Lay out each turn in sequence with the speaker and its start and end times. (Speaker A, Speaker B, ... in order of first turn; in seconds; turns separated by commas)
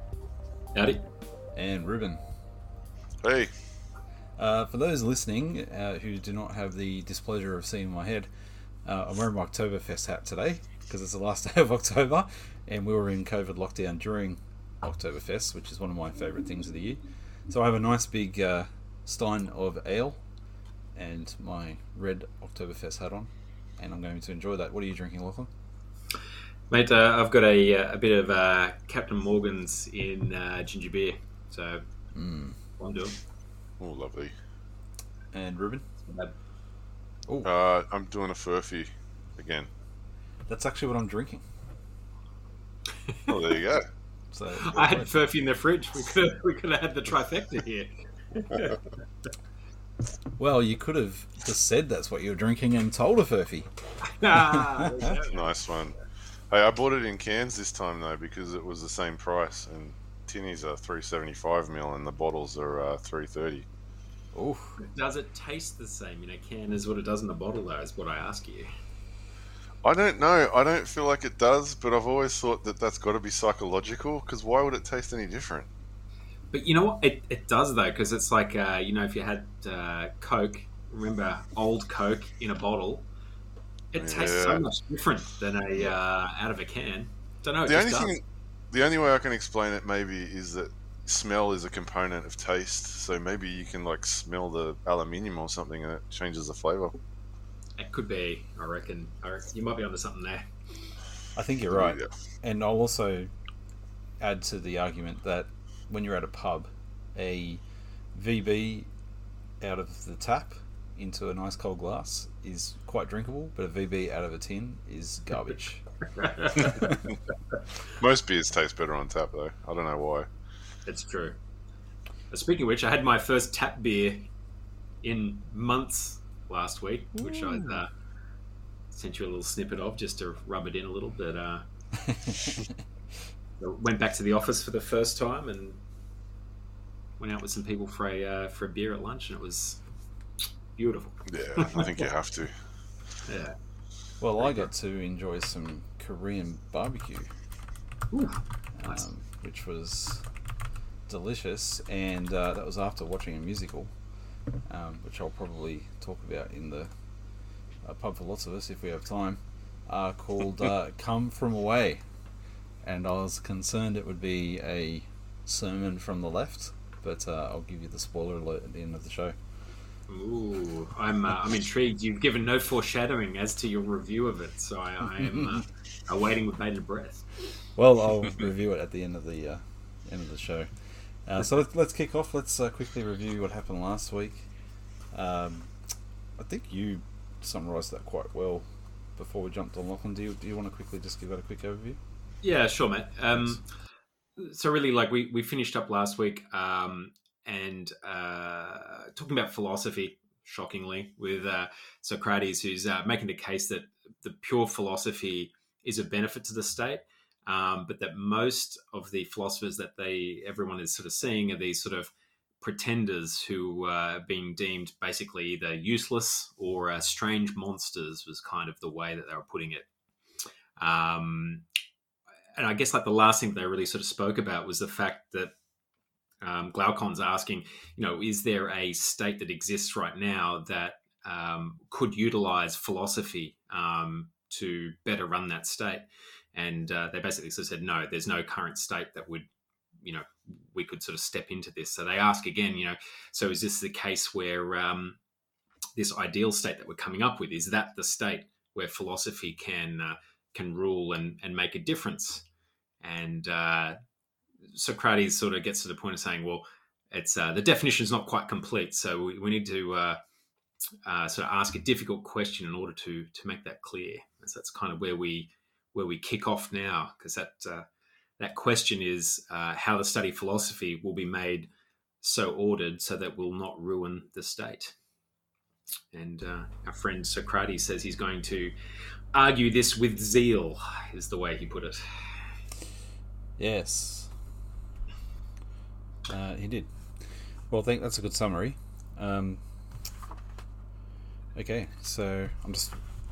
Speaker A: 0.7-1.0, Speaker B: 1.5-2.2, Speaker C: 3.2-3.5, Speaker B: 4.4-8.3, Speaker B: 8.8-20.2, Speaker B: 20.9-25.5, Speaker A: 26.7-31.8, Speaker B: 32.1-32.6, Speaker A: 32.8-33.2, Speaker C: 33.8-34.4, Speaker B: 35.3-35.9, Speaker A: 36.1-36.3, Speaker C: 37.4-39.7, Speaker B: 40.5-41.4, Speaker A: 43.1-43.4, Speaker C: 43.3-43.9, Speaker B: 44.3-45.2, Speaker A: 44.6-48.8, Speaker B: 50.4-53.7, Speaker A: 54.0-55.6, Speaker B: 54.3-54.9, Speaker C: 55.3-56.0, Speaker C: 56.5-63.7, Speaker B: 64.3-64.8, Speaker A: 64.8-68.7, Speaker C: 69.8-75.7, Speaker A: 76.5-83.1, Speaker A: 83.9-88.2, Speaker C: 84.0-84.7, Speaker C: 87.7-97.0, Speaker A: 97.8-100.5, Speaker B: 101.3-103.3, Speaker C: 101.7-102.1, Speaker B: 104.2-107.6, Speaker B: 108.1-108.9, Speaker B: 109.6-115.8, Speaker A: 116.1-116.9, Speaker C: 117.9-120.3, Speaker A: 120.9-121.4, Speaker A: 122.3-124.3, Speaker A: 125.0-127.9, Speaker A: 128.9-131.6, Speaker B: 132.1-132.4, Speaker A: 133.6-135.8, Speaker A: 137.2-139.8, Speaker A: 140.8-142.0, Speaker C: 141.3-142.6, Speaker A: 143.3-143.6, Speaker B: 144.2-147.3, Speaker A: 148.1-149.0, Speaker B: 148.8-150.3, Speaker B: 151.1-153.9, Speaker B: 154.7-156.9, Speaker B: 157.8-162.0, Speaker B: 162.8-169.4, Speaker A: 170.1-177.3, Speaker B: 177.8-180.7, Speaker B: 181.2-184.5, Speaker B: 185.1-185.7, Speaker B: 186.4-192.0, Speaker A: 192.4-193.6, Speaker B: 193.3-193.6, Speaker A: 194.4-219.9, Speaker A: 220.8-221.7, Speaker A: 222.6-225.5, Speaker A: 226.4-239.5, Speaker A: 240.0-245.2, Speaker A: 246.0-252.5, Speaker A: 253.0-254.0, Speaker A: 254.7-260.2, Speaker A: 261.1-267.9, Speaker A: 268.4-271.7, Speaker A: 272.2-274.9, Speaker A: 276.1-278.7, Speaker A: 279.3-282.5, Speaker B: 283.6-284.3, Speaker B: 286.3-286.9, Speaker B: 287.7-289.6, Speaker B: 291.6-293.0